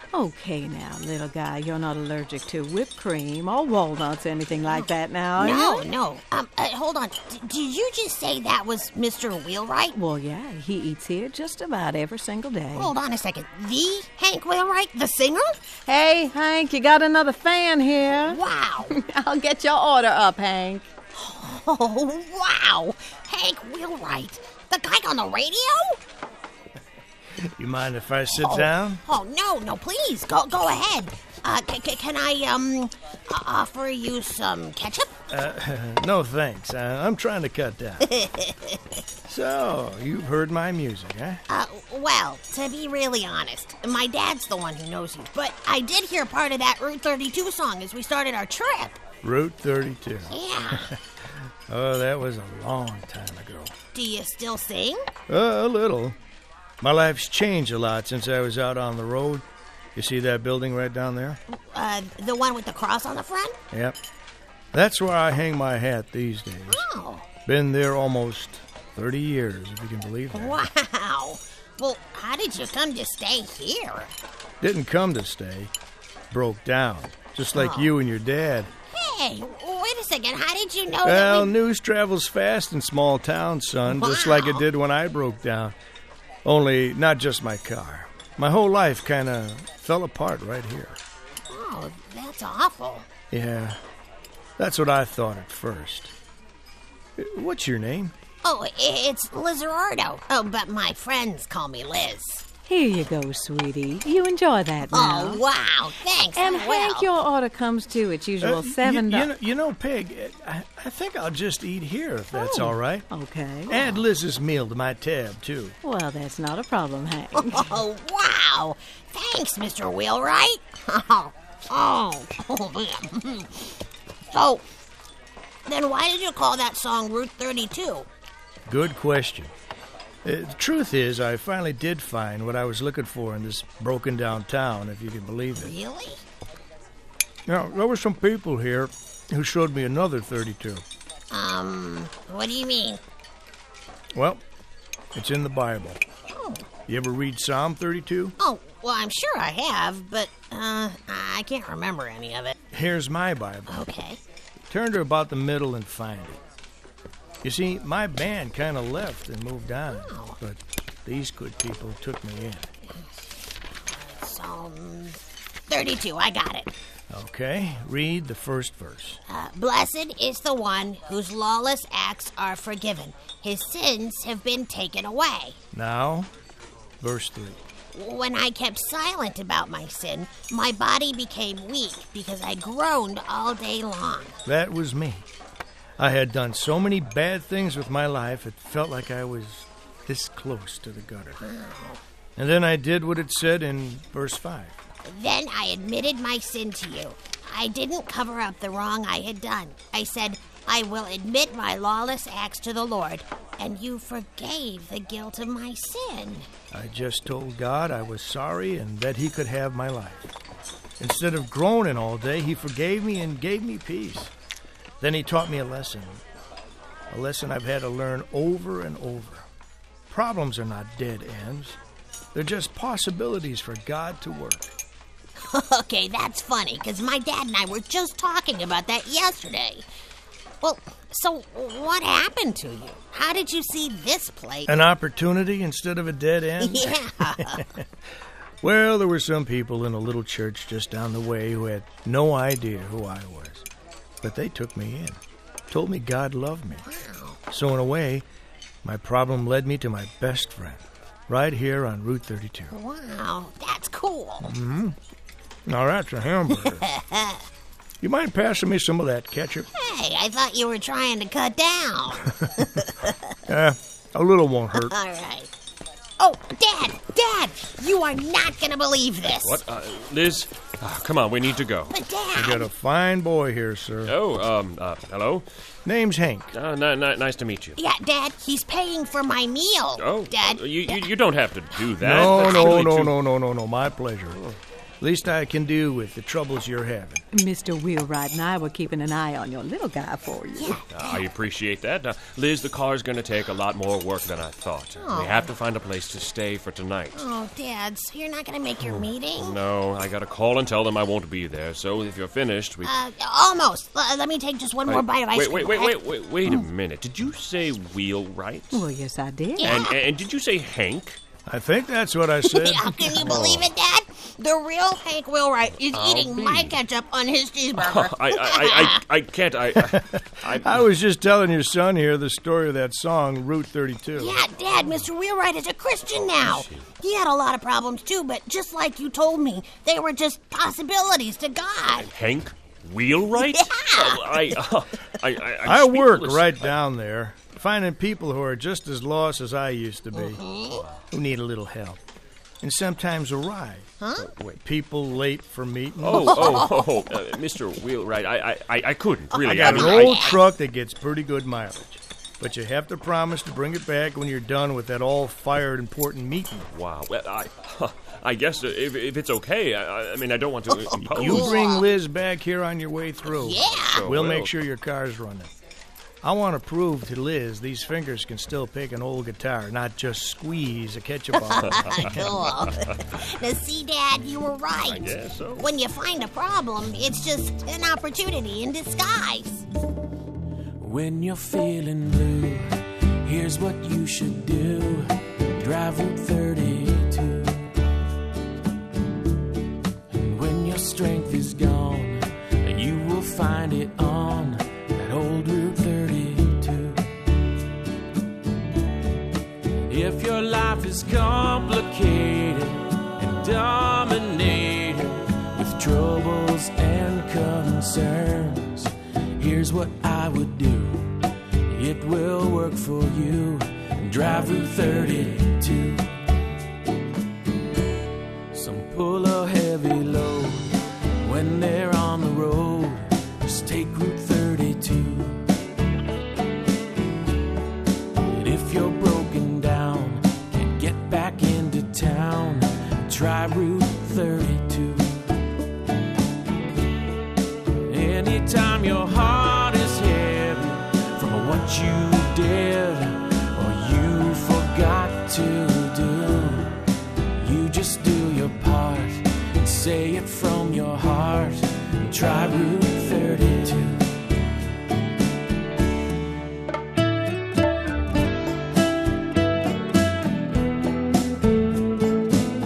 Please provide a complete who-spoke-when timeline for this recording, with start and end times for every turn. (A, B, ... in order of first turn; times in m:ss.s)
0:00.1-0:05.8 A
0:05.4-0:10.0 B
0:10.0-0:12.9 A
0:12.7-0:15.6 B
0:15.8-0:20.9 A
0:18.1-0:18.9 B
0:21.1-0:26.0 B
0:27.4-0:29.0 C
0:28.4-0:35.1 B
0:35.3-0:38.1 C
0:38.0-0:39.0 B
0:39.2-0:41.4 C
0:41.5-0:49.0 B
0:49.2-0:53.7 C
0:50.3-0:50.9 B
0:53.9-0:55.0 B
0:55.3-0:56.1 C
0:56.8-1:01.4 C
1:01.5-1:03.6 B
1:03.7-1:04.0 C
1:04.7-1:06.8 C
1:06.7-1:07.3 B
1:07.4-1:10.6 C
1:10.3-1:14.1 B
1:14.6-1:15.7 C
1:16.3-1:18.7 C
1:17.5-1:17.9 B
1:18.9-1:21.5 B
1:21.0-1:25.7 C
1:23.9-1:24.6 B
1:26.4-1:31.0 C
1:31.5-1:33.1 B
1:33.3-1:33.8 C
1:34.6-1:36.1 C
1:37.2-1:38.1 C
1:38.4-1:42.4 B
1:42.6-1:45.4 A
1:44.9-1:47.1 B
1:46.3-1:49.3 A
1:48.4-1:53.1 C
1:52.3-1:53.8 A
1:53.7-1:55.8 C
1:55.8-1:57.7 A
1:57.4-2:03.8 B
2:04.3-2:04.6 B
2:05.6-2:08.1 B
2:08.7-2:09.5 C
2:10.2-2:15.7 C
2:15.6-2:16.2 B
2:17.4-2:20.8 C
2:21.3-2:23.0 B
2:24.1-2:24.4 C
2:25.1-2:26.0 C
2:26.3-2:26.7 B
2:26.9-2:28.4 C
2:28.4-2:32.5 B
2:32.7-2:33.9 C
2:33.7-2:34.2 B
2:34.7-2:36.4 C
2:37.4-2:42.7 C
2:39.9-2:40.4 B
2:43.8-2:46.7 B
2:47.1-2:49.2 C
2:49.3-2:55.6 B
2:55.7-2:56.3 C
2:57.0-2:57.6 C
2:57.9-3:04.4 B
3:04.4-3:05.3 C
3:06.0-3:11.4 C
3:11.4-3:12.0 B
3:12.4-3:14.8 C
3:15.0-3:26.5 B
3:26.7-3:30.3 C
3:31.0-3:34.3 C
3:35.0-3:36.2 C
3:37.1-3:39.5 C
3:40.1-3:41.8 C
3:42.3-3:44.7 C
3:45.4-3:49.8 B
3:50.6-3:54.8 B
3:54.7-3:57.8 C
3:56.6-3:57.6 B
3:58.6-4:03.6 C
4:04.2-4:05.2 C
4:05.7-4:06.9 C
4:06.8-4:07.4 B
4:07.5-4:08.2 C
4:08.8-4:12.7 C
4:12.7-4:14.5 B
4:14.4-4:15.0 C
4:15.6-4:16.8 C
4:16.6-4:17.4 B
4:18.0-4:19.7 C
4:19.7-4:23.3 B
4:22.3-4:22.6 C
4:23.5-4:24.9 C
4:24.7-4:25.5 B
4:26.2-4:29.6 B
4:29.2-4:32.0 D
4:31.9-4:32.7 B
4:32.3-4:34.2 C
4:34.1-4:35.4 D
4:35.8-4:36.5 C
4:36.5-4:37.8 D
4:37.8-4:41.1 B
4:40.0-4:43.1 D
4:42.0-4:44.4 C
4:42.0-4:42.9 B
4:45.0-4:47.2 C
4:47.3-4:50.8 A
4:50.6-4:51.2 B
4:50.9-4:57.2 D
4:55.0-4:55.5 B
4:57.1-4:59.6 B
4:58.8-5:02.9 D
5:02.8-5:06.0 B
5:04.8-5:08.8 D
5:08.7-5:09.8 A
5:09.6-5:10.0 B
5:09.6-5:11.2 D
5:11.4-5:13.4 C
5:12.5-5:19.0 B
5:13.2-5:13.7 D
5:15.9-5:16.8 D
5:17.8-5:20.8 D
5:19.8-5:24.4 C
5:24.2-5:32.1 B
5:26.4-5:26.9 D
5:32.0-5:36.7 D
5:33.4-5:34.6 B
5:35.6-5:40.4 C
5:40.2-5:40.8 B
5:40.8-5:41.0 D
5:41.1-5:42.0 C
5:42.6-5:43.9 C
5:44.0-5:44.3 B
5:44.2-5:44.6 D
5:44.6-5:46.7 C
5:46.0-5:50.4 D
5:46.1-5:46.9 B
5:49.3-5:50.3 B
5:49.4-5:56.7 C
5:56.7-6:01.5 D
6:00.9-6:01.9 B
6:01.1-6:05.5 C
6:03.3-6:04.0 B
6:03.6-6:04.5 D
6:06.2-6:12.6 C
6:11.4-6:19.6 B
6:11.7-6:12.1 D
6:14.8-6:15.7 D
6:20.8-6:27.7 E
6:30.1-6:37.0 E
6:39.9-6:51.2 E
6:51.7-6:56.1 E
6:58.5-7:05.4 E
7:08.3-7:15.2 E
7:17.8-7:26.8 E
7:27.4-7:34.1 E